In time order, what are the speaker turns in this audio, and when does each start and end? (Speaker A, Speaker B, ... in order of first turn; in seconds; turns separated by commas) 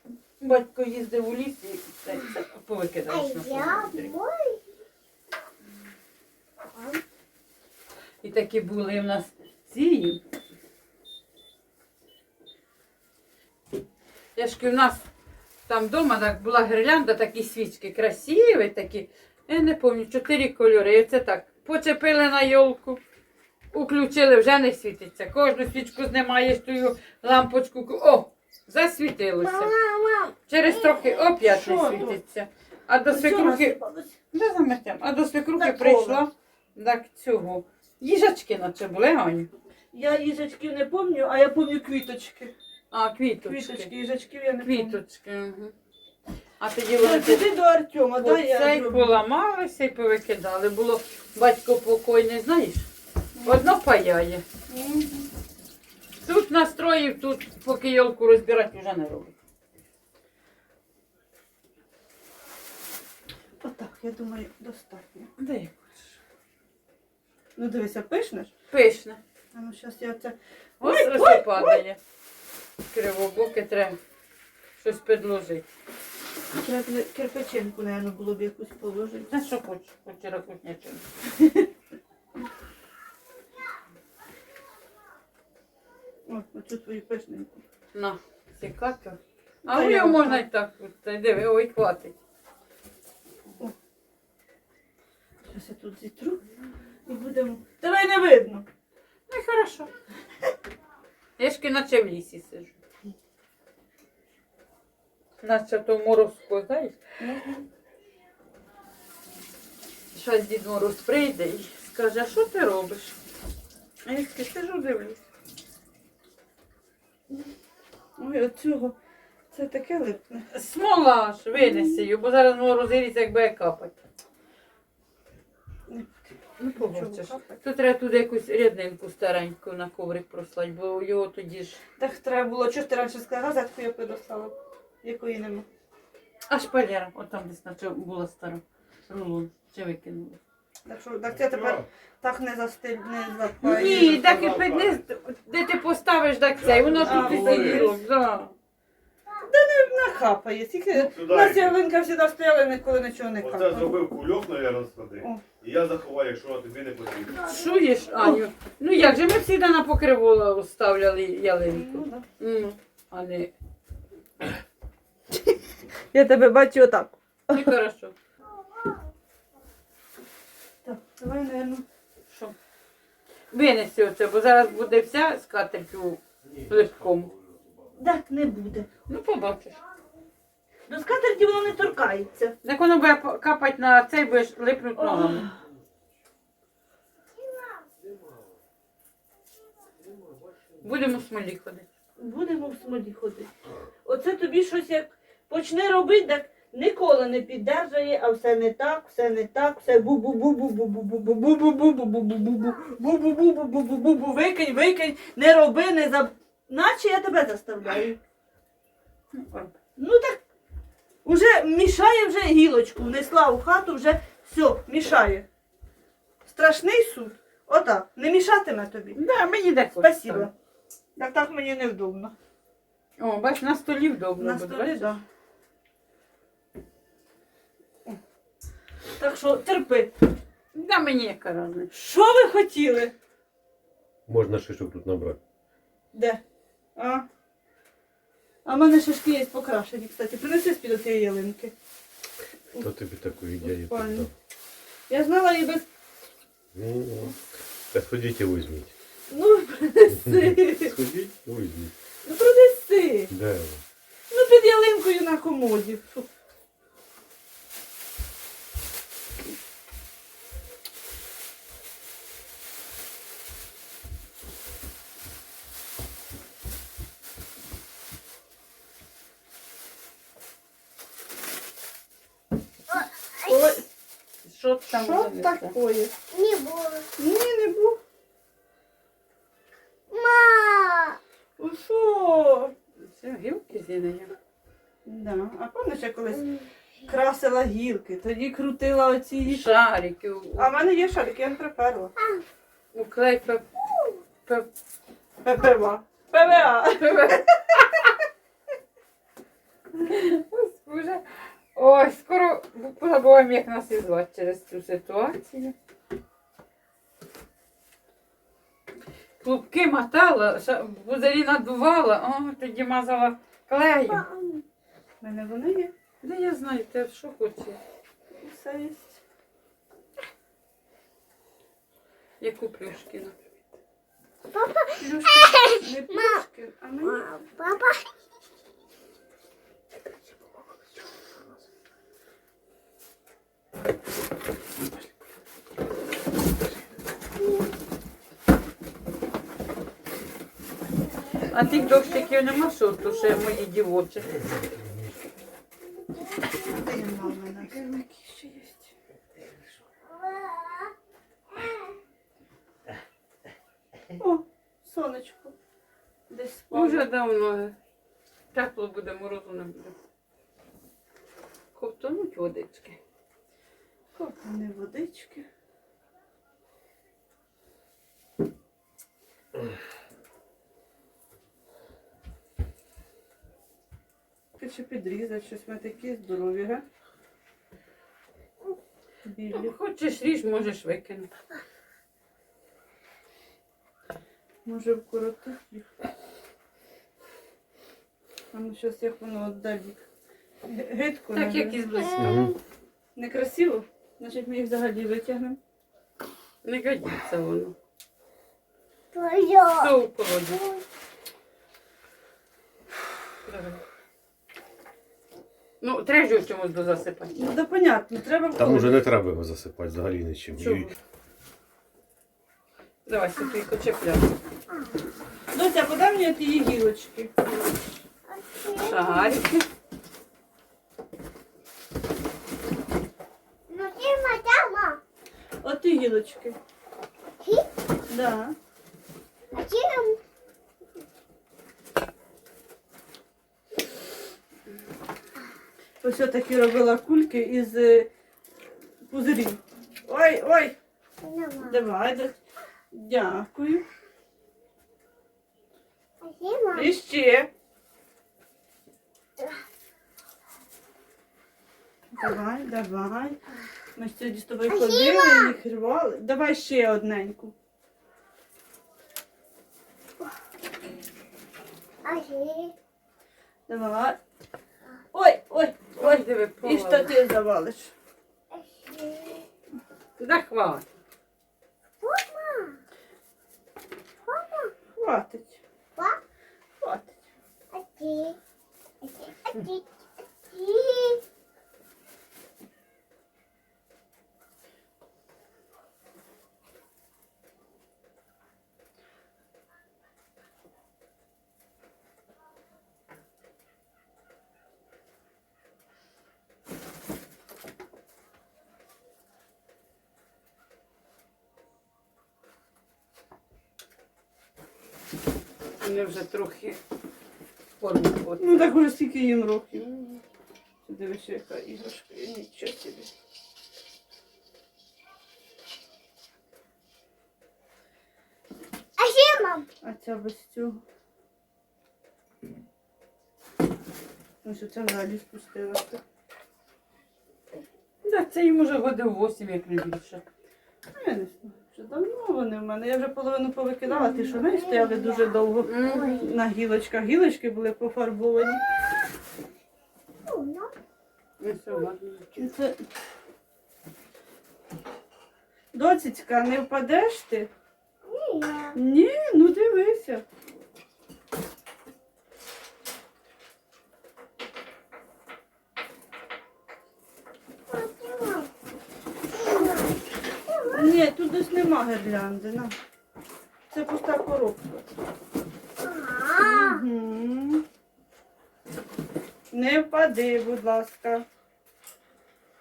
Speaker A: 0.4-4.1, Speaker B: 3.1-4.6, Speaker B: 6.7-7.0, Speaker A: 8.2-10.2, Speaker A: 14.4-15.1, Speaker A: 15.7-23.0, Speaker A: 23.7-29.7, Speaker B: 29.4-32.1, Speaker A: 30.5-33.8, Speaker C: 31.4-32.2, Speaker C: 33.1-34.1, Speaker A: 34.3-39.5, Speaker C: 35.6-36.2, Speaker C: 39.9-42.5, Speaker A: 42.9-43.9, Speaker C: 43.4-45.0, Speaker A: 44.6-45.7, Speaker A: 46.6-47.5, Speaker C: 47.0-49.2, Speaker A: 48.2-52.9, Speaker C: 53.4-53.6, Speaker A: 53.4-54.4, Speaker C: 54.7-55.3, Speaker A: 56.2-59.4, Speaker C: 63.6-65.3, Speaker A: 65.4-66.1, Speaker C: 67.6-68.5, Speaker A: 68.7-69.2, Speaker C: 69.5-71.8, Speaker A: 70.8-72.0, Speaker A: 72.9-74.0, Speaker A: 74.8-75.7, Speaker C: 76.5-79.3, Speaker A: 79.3-81.1, Speaker C: 86.3-87.6, Speaker A: 87.9-92.1, Speaker C: 89.7-90.4, Speaker C: 95.5-96.4, Speaker C: 97.1-98.7, Speaker A: 99.3-99.9, Speaker A: 101.4-102.8, Speaker A: 105.4-107.0, Speaker C: 107.2-107.7, Speaker A: 110.1-113.2, Speaker A: 114.0-115.2, Speaker C: 118.2-119.0, Speaker C: 119.5-120.5, Speaker A: 120.5-123.9, Speaker C: 121.7-122.0, Speaker C: 125.9-127.6, Speaker A: 126.6-131.8, Speaker C: 132.0-135.7, Speaker A: 136.5-140.4, Speaker C: 140.9-144.6, Speaker D: 141.3-141.9, Speaker A: 143.6-148.6, Speaker D: 143.8-145.0, Speaker D: 146.6-147.9, Speaker C: 147.0-147.9, Speaker C: 149.4-154.0, Speaker D: 151.0-151.8, Speaker D: 153.4-157.5, Speaker A: 157.3-163.5, Speaker C: 161.7-162.3, Speaker C: 166.1-167.7, Speaker A: 167.5-168.2, Speaker C: 170.8-171.8, Speaker A: 172.3-172.6, Speaker A: 173.5-177.3, Speaker C: 178.0-178.9, Speaker A: 179.1-179.8, Speaker C: 180.9-182.5, Speaker A: 182.6-185.5, Speaker C: 185.0-185.6, Speaker A: 190.8-191.9, Speaker C: 192.2-193.5, Speaker C: 194.0-208.2, Speaker A: 209.3-209.8, Speaker C: 210.0-210.4, Speaker C: 211.2-215.4, Speaker C: 216.4-219.2, Speaker A: 219.2-220.5, Speaker C: 220.0-220.5, Speaker C: 221.2-222.3, Speaker A: 223.2-225.2, Speaker C: 224.4-225.2, Speaker C: 229.2-230.1, Speaker A: 230.7-231.9, Speaker C: 231.9-233.1, Speaker E: 234.3-235.4, Speaker C: 236.1-236.4, Speaker C: 236.9-237.2, Speaker C: 238.7-241.7, Speaker E: 242.8-244.3, Speaker C: 243.6-244.3, Speaker C: 245.1-245.8, Speaker E: 246.7-247.4, Speaker E: 247.9-248.9, Speaker C: 249.3-250.9, Speaker E: 250.2-251.9, Speaker C: 252.2-253.3, Speaker E: 253.3-253.8, Speaker C: 254.3-256.3, Speaker B: 272.9-273.7, Speaker C: 273.4-273.9, Speaker A: 274.4-275.8, Speaker C: 274.9-276.1, Speaker B: 276.3-277.1, Speaker C: 277.2-278.0, Speaker B: 280.1-281.2, Speaker C: 281.6-282.7, Speaker A: 283.0-284.3, Speaker C: 285.1-286.4, Speaker B: 286.3-286.7, Speaker C: 287.1-289.6, Speaker A: 289.4-290.8, Speaker C: 290.6-292.1, Speaker B: 292.2-292.4, Speaker A: 292.9-293.6, Speaker C: 295.4-297.4, Speaker A: 296.9-298.0, Speaker A: 300.0-305.8, Speaker A: 309.4-314.2, Speaker B: 314.1-314.6, Speaker C: 315.2-315.9, Speaker A: 316.2-317.8, Speaker C: 318.4-319.2, Speaker A: 322.4-323.3, Speaker B: 324.5-326.4, Speaker C: 325.0-327.3, Speaker B: 327.0-328.1, Speaker B: 341.4-342.3, Speaker A: 341.5-344.5, Speaker E: 344.8-345.1, Speaker B: 346.4-346.7, Speaker C: 346.6-348.9, Speaker B: 350.1-350.9, Speaker B: 351.6-351.9, Speaker C: 354.2-355.6, Speaker C: 356.3-357.1, Speaker A: 356.7-357.8, Speaker A: 358.5-359.9, Speaker A: 361.8-363.0, Speaker C: 364.1-365.4, Speaker C: 374.6-376.8, Speaker C: 379.2-379.7, Speaker A: 379.5-381.3, Speaker C: 384.6-385.9, Speaker C: 388.5-390.0, Speaker C: 390.6-391.8, Speaker A: 391.3-392.4, Speaker B: 391.9-392.6, Speaker E: 392.2-392.6, Speaker C: 393.2-395.6, Speaker A: 396.6-397.8, Speaker B: 399.1-399.9, Speaker A: 399.8-400.6, Speaker B: 400.5-400.8, Speaker A: 403.4-403.8, Speaker A: 405.8-407.4, Speaker C: 407.3-409.0, Speaker E: 408.5-410.9, Speaker A: 410.6-410.9, Speaker A: 413.1-414.3, Speaker C: 415.5-417.3, Speaker B: 418.3-419.4, Speaker A: 418.8-419.7, Speaker B: 423.7-425.0, Speaker C: 425.6-426.6, Speaker B: 427.4-427.7, Speaker C: 428.1-428.6, Speaker B: 429.5-430.2, Speaker C: 436.0-438.1, Speaker C: 439.1-440.8, Speaker B: 441.2-441.9, Speaker C: 441.7-442.3, Speaker C: 442.9-443.8, Speaker B: 446.2-446.9, Speaker C: 446.7-447.5, Speaker C: 452.1-453.4, Speaker C: 453.9-457.5, Speaker B: 454.7-455.5, Speaker B: 462.0-462.7, Speaker C: 463.7-464.2, Speaker C: 465.1-467.9, Speaker A: 465.9-467.1, Speaker B: 468.5-469.4, Speaker A: 470.2-470.9, Speaker B: 472.0-472.8, Speaker B: 474.3-474.7, Speaker C: 474.9-475.6, Speaker B: 475.9-476.2, Speaker C: 476.8-477.1, Speaker B: 477.7-478.4, Speaker B: 479.0-481.2, Speaker A: 505.8-506.8, Speaker A: 507.8-508.7, Speaker C: 508.4-510.2, Speaker C: 510.8-513.1, Speaker B: 519.0-519.7, Speaker C: 519.8-520.8, Speaker C: 524.4-526.0, Speaker A: 528.0-530.2, Speaker C: 530.9-538.6, Speaker B: 533.9-536.4, Speaker A: 535.6-536.2, Speaker B: 540.2-540.7, Speaker A: 541.4-542.3, Speaker C: 542.4-542.8, Speaker C: 545.7-547.5, Speaker B: 548.0-548.8, Speaker C: 548.8-550.2, Speaker B: 557.7-558.5, Speaker B: 559.3-560.9, Speaker C: 560.7-562.7, Speaker C: 563.7-564.9, Speaker B: 565.8-566.8, Speaker C: 566.4-567.6, Speaker C: 569.5-571.2